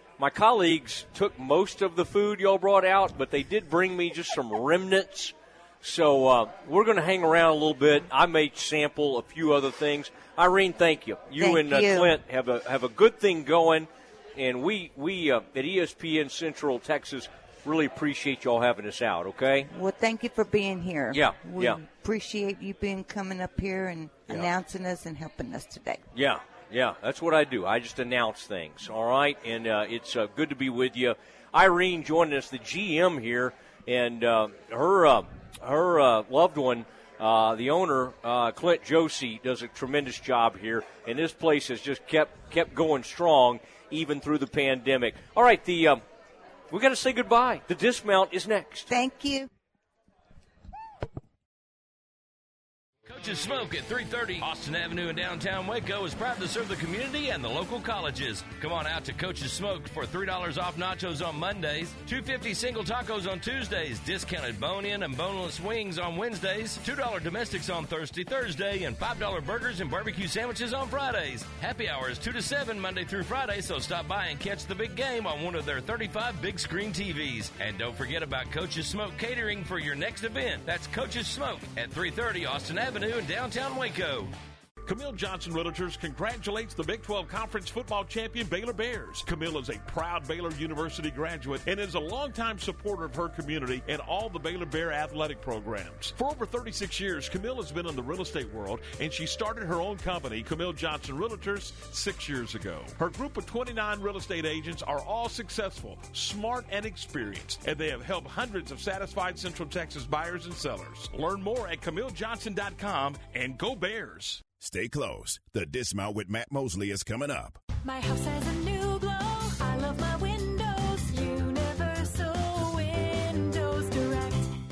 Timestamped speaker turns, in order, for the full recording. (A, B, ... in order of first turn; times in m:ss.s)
0:00.2-0:19.7 A
0:11.4-0:12.2 B
0:19.7-0:26.0 B
0:21.1-0:21.8 A
0:26.1-0:46.0 A
0:46.7-0:48.9 A
0:48.9-0:49.5 B
0:53.0-1:24.3 C
1:24.8-1:54.5 D
1:54.6-1:57.6 E
1:57.8-2:04.5 F